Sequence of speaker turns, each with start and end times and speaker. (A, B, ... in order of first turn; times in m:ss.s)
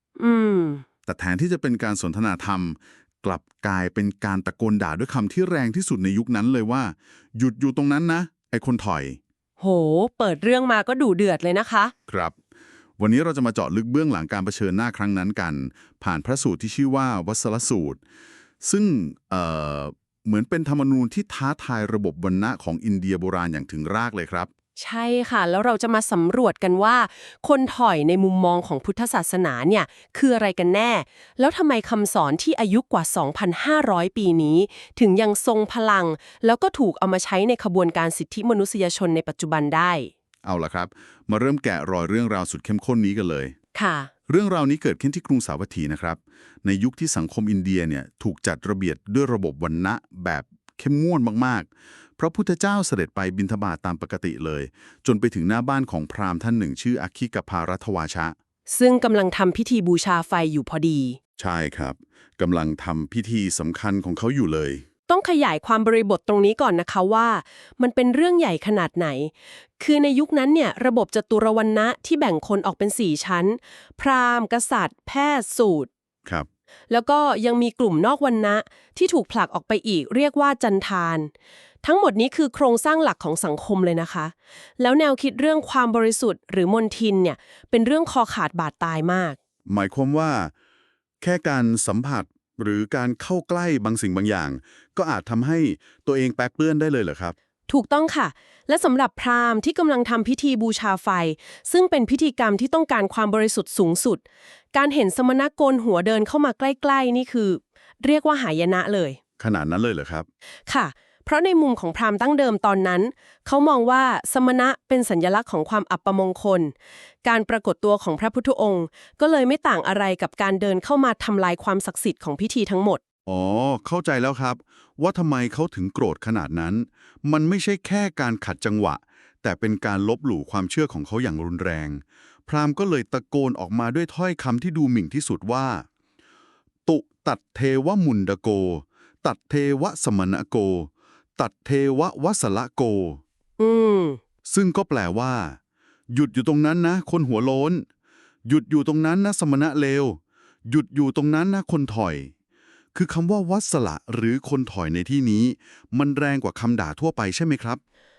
0:00.2-0:00.8 A
0:01.1-0:09.2 B
0:09.6-0:11.9 A
0:12.1-0:12.3 B
0:13.0-0:18.0 B
0:18.6-0:24.5 B
0:24.8-0:40.1 A
0:40.4-0:43.6 B
0:43.7-0:44.1 A
0:44.3-0:58.3 B
0:58.7-1:01.2 A
1:01.4-1:04.8 B
1:05.1-1:15.9 A
1:16.9-1:21.3 A
1:21.8-1:29.4 A
1:29.7-1:30.5 B
1:31.2-1:37.3 B
1:37.7-1:49.2 A
1:49.4-1:50.3 B
1:50.7-2:03.0 A
2:03.3-2:15.9 B
2:16.9-2:23.2 B
2:23.6-2:24.2 A
2:24.5-2:25.6 B
2:26.1-2:27.8 B
2:28.5-2:32.3 B
2:32.9-2:37.8 B